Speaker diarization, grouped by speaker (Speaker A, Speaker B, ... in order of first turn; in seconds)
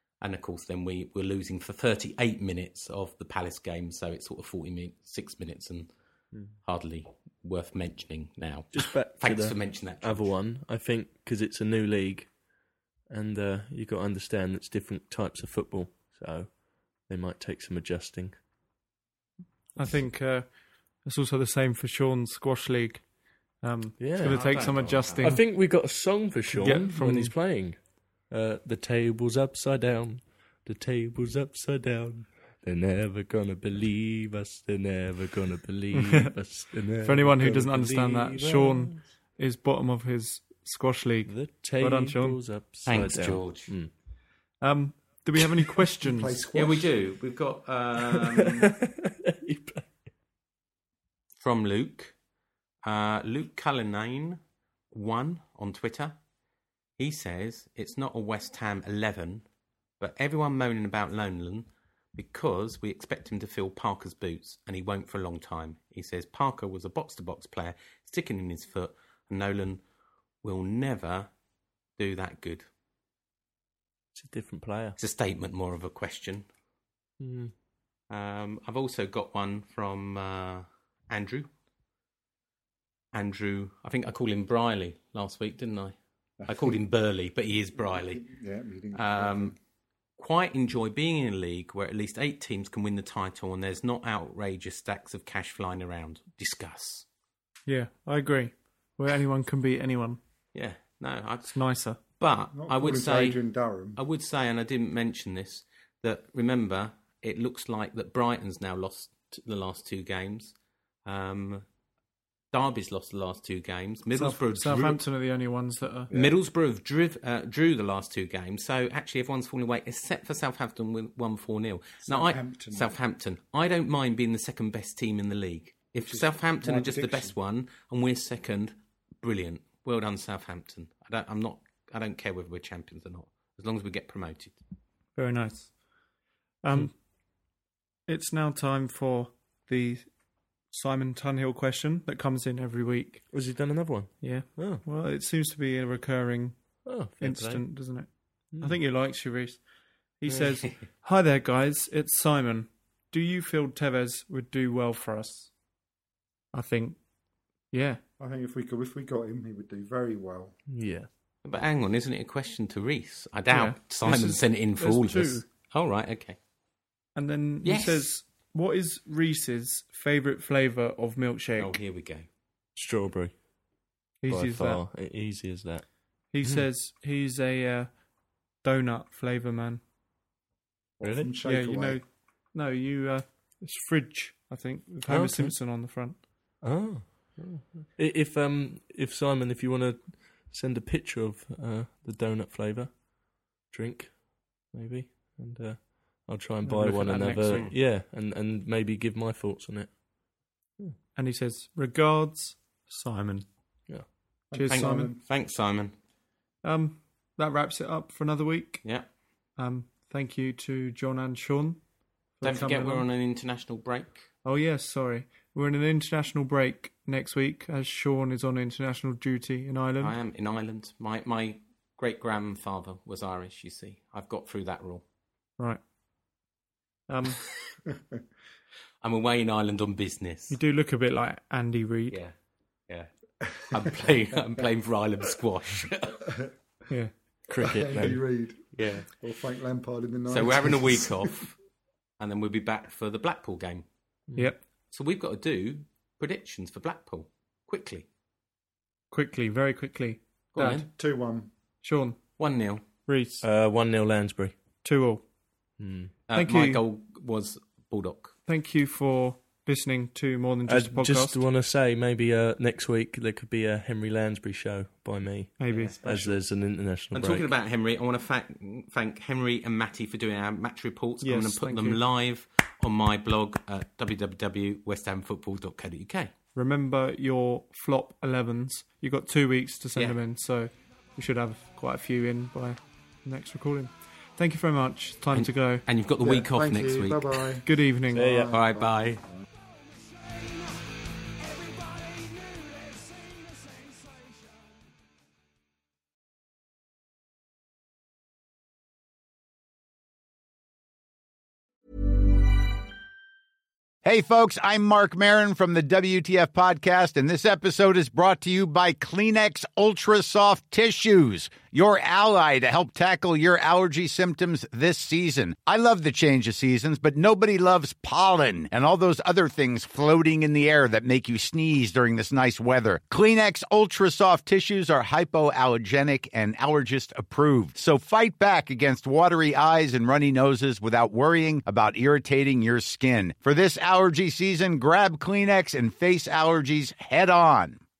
Speaker A: 0.2-5.9, 6.6-10.3, 24.3-25.4, 42.8-43.7, 46.5-48.7, 51.4-52.1, 52.8-54.4, 54.9-56.2, 57.0-59.4, 60.0-69.8, 70.4-71.3, 72.0-72.7, 75.0-76.5, 78.1-81.5, 83.1-88.2, 88.9-89.5, 90.2-97.0, 100.5-103.4, 103.9-110.5, 111.0-111.6, 112.5-115.0, 116.1-134.6, 161.4-166.4, 167.6-168.1, 171.6-172.2, 197.4-197.7, 204.7-205.9, 212.4-214.2, 220.0-225.0, 229.0-230.6, 232.9-236.3, 238.7-239.1, 240.3-241.6, 242.2-243.8, 244.9-248.1, 250.5-250.9, 252.4-252.8, 256.3-258.3, 265.7-265.9, 267.1-276.3, 285.3-287.4, 288.5-289.2
Speaker B: 8.7-12.4, 13.1-18.4, 24.0-39.0, 41.2-43.9, 48.1-49.9, 74.1-75.0, 77.2-77.5, 143.3-144.8, 146.8-147.8, 148.5-148.8, 160.7-161.1, 172.8-173.4, 174.2-175.8, 176.4-176.7, 181.0-181.3, 185.1-185.5, 186.6-193.0, 193.6-200.0, 237.5-238.2, 253.4-254.5, 255.8-256.1, 260.7-267.5, 288.1-288.5
Speaker C: 19.8-20.5, 21.0-23.1, 23.6-25.4, 26.6-27.3, 35.9-36.3, 37.0-42.4, 44.6-46.4, 97.7-100.2, 101.5-102.0, 114.1-116.1, 135.2-135.8, 136.6-136.9, 138.1-140.1, 140.7-143.2, 144.2-149.6, 150.2-155.5, 156.5-157.0, 157.7-158.0, 163.5-165.4, 167.2-171.7, 174.2-174.8, 176.3-177.9, 178.6-179.8, 181.4-186.2, 196.6-197.7, 201.1-203.5, 204.5-205.1, 206.6-208.8, 209.6-211.8, 212.3-213.1, 214.4-220.1, 227.1-227.4, 230.5-232.2, 244.3-244.6, 249.1-250.9, 251.8-252.2, 253.1-253.4, 254.8-255.2, 256.3-256.8, 258.4-261.4, 265.6-266.4, 271.2-272.0, 276.5-285.8, 287.6-288.4
Speaker D: 46.0-46.9, 86.4-86.8, 87.8-89.6, 102.5-104.0, 116.1-116.3, 122.0-122.9, 126.0-127.3, 158.2-160.6, 181.0-182.0, 204.5-205.2, 237.6-241.3, 250.9-251.5, 286.2-289.4
Speaker E: 304.0-337.8